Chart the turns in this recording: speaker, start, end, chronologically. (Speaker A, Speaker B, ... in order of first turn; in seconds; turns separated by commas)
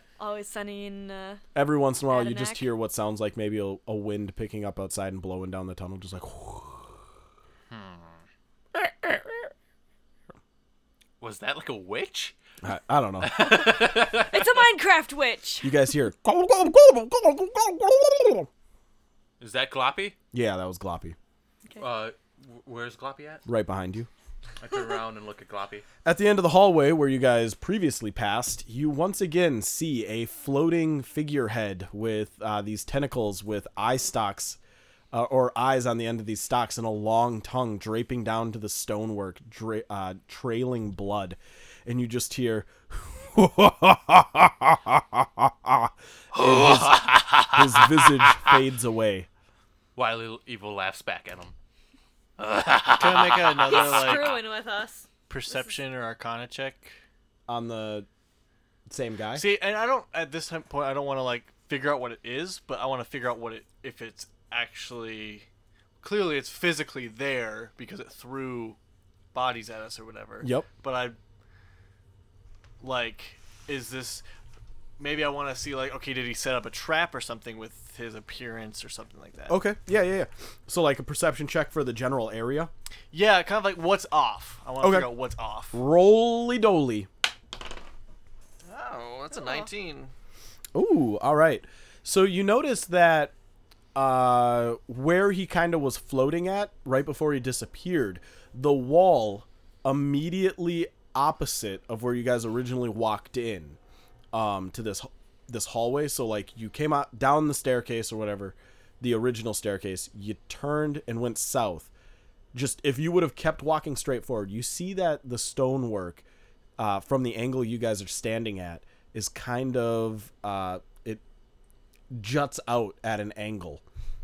Speaker A: 0.2-1.4, Speaker B: 1.5-7.0, Speaker A: 2.1-2.7, Speaker C: 7.7-8.2, Speaker B: 8.7-9.5, Speaker C: 11.2-12.3, Speaker B: 12.6-13.4, Speaker C: 13.2-14.6, Speaker A: 14.2-15.7, Speaker B: 15.6-18.5, Speaker C: 19.4-20.1, Speaker B: 20.3-21.1, Speaker C: 21.8-23.4, Speaker B: 23.4-24.1, Speaker C: 24.6-25.9, Speaker B: 26.0-34.6, Speaker B: 35.1-49.3, Speaker C: 46.3-48.5, Speaker C: 50.0-51.5, Speaker C: 52.4-54.4, Speaker D: 53.0-54.3, Speaker A: 53.7-55.7, Speaker D: 55.3-57.0, Speaker B: 57.5-58.1, Speaker B: 58.9-59.4, Speaker D: 59.3-65.5, Speaker D: 66.0-68.8, Speaker D: 69.3-71.2, Speaker B: 70.4-70.7, Speaker D: 72.8-74.2, Speaker D: 75.0-79.6, Speaker B: 79.5-82.7, Speaker D: 83.1-85.8, Speaker B: 84.8-85.1, Speaker B: 85.7-87.1, Speaker D: 88.6-90.1, Speaker A: 89.3-89.7, Speaker B: 90.7-93.3, Speaker B: 93.9-103.8, Speaker B: 104.3-111.9, Speaker B: 112.5-116.2, Speaker B: 116.8-121.2, Speaker B: 122.1-123.8